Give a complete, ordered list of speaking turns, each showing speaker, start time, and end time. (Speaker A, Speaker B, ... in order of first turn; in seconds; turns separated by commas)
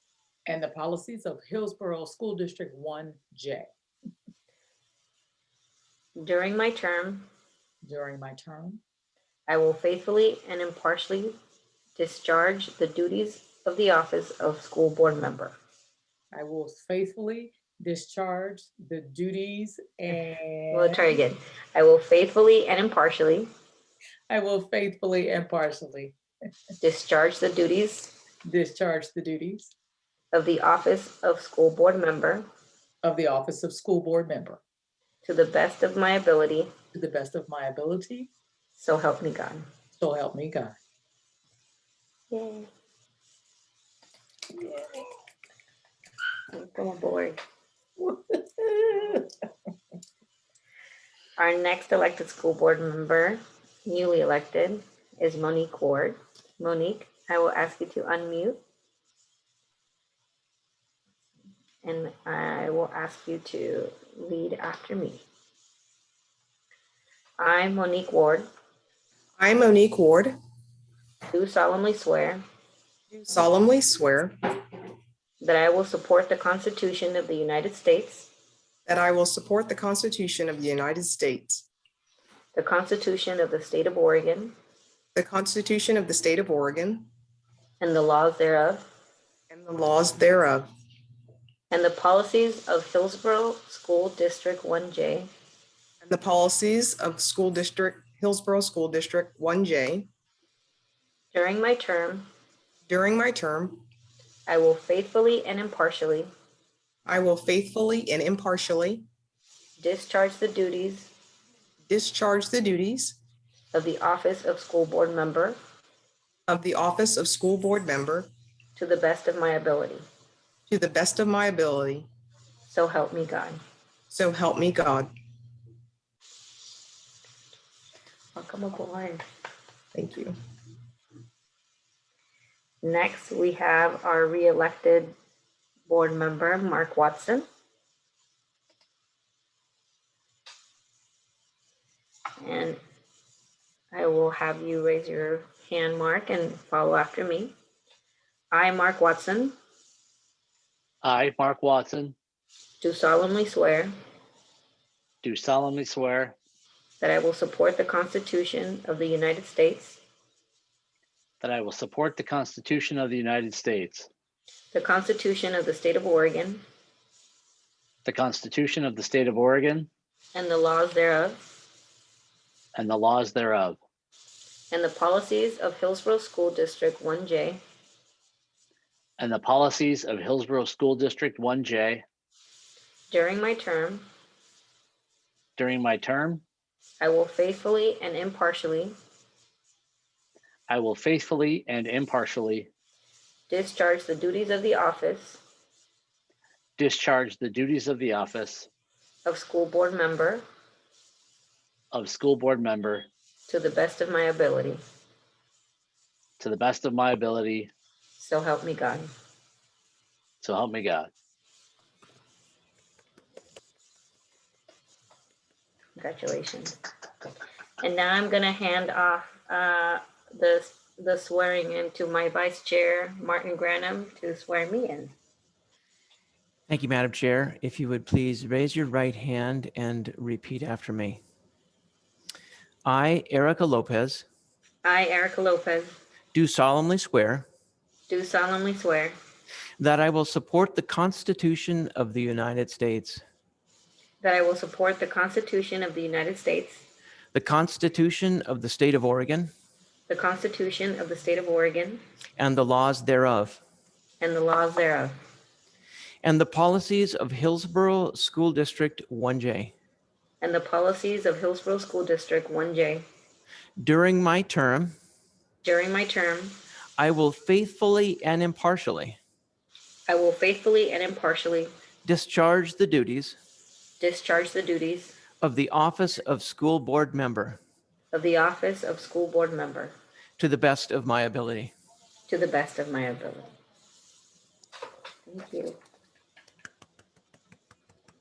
Speaker A: 0.5-3.7, Speaker B: 6.2-7.3, Speaker A: 7.8-8.8, Speaker B: 9.5-11.4, Speaker B: 11.9-15.6, Speaker A: 16.3-21.1, Speaker B: 20.7-23.5, Speaker A: 24.3-26.1, Speaker B: 26.8-28.1, Speaker A: 28.4-29.7, Speaker B: 30.3-32.5, Speaker A: 33.0-34.6, Speaker B: 35.2-36.7, Speaker A: 36.9-38.3, Speaker B: 38.8-39.7, Speaker A: 40.0-40.8, Speaker B: 42.3-42.7, Speaker B: 46.5-47.4, Speaker A: 48.0-49.2, Speaker B: 51.4-58.6, Speaker B: 61.8-65.2, Speaker B: 67.4-68.5, Speaker C: 69.4-70.3, Speaker B: 71.3-72.4, Speaker C: 73.1-74.4, Speaker B: 75.4-78.3, Speaker C: 78.8-81.7, Speaker B: 82.5-84.5, Speaker C: 85.1-87.1, Speaker B: 87.8-88.8, Speaker C: 89.5-90.7, Speaker B: 91.7-95.3, Speaker C: 96.0-100.1, Speaker B: 101.3-102.3, Speaker C: 102.9-103.8, Speaker B: 104.5-106.3, Speaker C: 107.0-109.0, Speaker B: 109.8-111.1, Speaker C: 111.9-113.2, Speaker B: 113.7-115.6, Speaker C: 116.5-118.3, Speaker B: 118.8-120.0, Speaker C: 120.7-122.1, Speaker B: 122.7-123.6, Speaker C: 124.1-125.1, Speaker B: 128.3-129.2, Speaker C: 129.9-130.3, Speaker B: 132.8-135.1, Speaker B: 135.9-137.4, Speaker B: 142.4-142.8, Speaker B: 143.9-147.5, Speaker B: 148.5-149.5, Speaker D: 151.0-152.1, Speaker B: 152.8-153.9, Speaker D: 155.2-156.3, Speaker B: 157.0-160.0, Speaker D: 161.4-164.1, Speaker B: 164.7-166.6, Speaker D: 168.0-169.9, Speaker B: 170.3-171.4, Speaker D: 172.7-173.8, Speaker B: 174.7-177.6, Speaker D: 179.2-182.0, Speaker B: 183.1-184.1, Speaker D: 185.6-186.4, Speaker B: 187.0-188.9, Speaker D: 190.7-192.7, Speaker B: 193.5-195.4, Speaker D: 196.8-198.7, Speaker B: 199.2-200.4, Speaker D: 201.9-203.1, Speaker B: 203.5-204.8, Speaker D: 206.4-207.7, Speaker B: 208.2-209.1, Speaker D: 210.4-211.1, Speaker B: 216.0-216.7, Speaker B: 217.8-225.1, Speaker E: 226.7-231.2, Speaker E: 232.8-234.2, Speaker B: 234.8-235.9, Speaker E: 236.3-237.5, Speaker B: 238.1-239.2, Speaker E: 239.8-243.2, Speaker B: 244.2-246.8, Speaker E: 247.3-249.5, Speaker B: 250.1-252.0, Speaker E: 252.4-253.6, Speaker B: 254.2-255.1, Speaker E: 256.2-259.7, Speaker B: 260.4-263.0, Speaker E: 263.8-264.9, Speaker B: 265.6-266.5, Speaker E: 267.0-269.2, Speaker B: 270.1-271.7, Speaker E: 272.0-273.4, Speaker B: 274.0-275.2, Speaker E: 275.4-277.6, Speaker B: 278.1-279.9, Speaker E: 280.4-281.7, Speaker B: 282.3-283.5, Speaker B: 285.3-285.8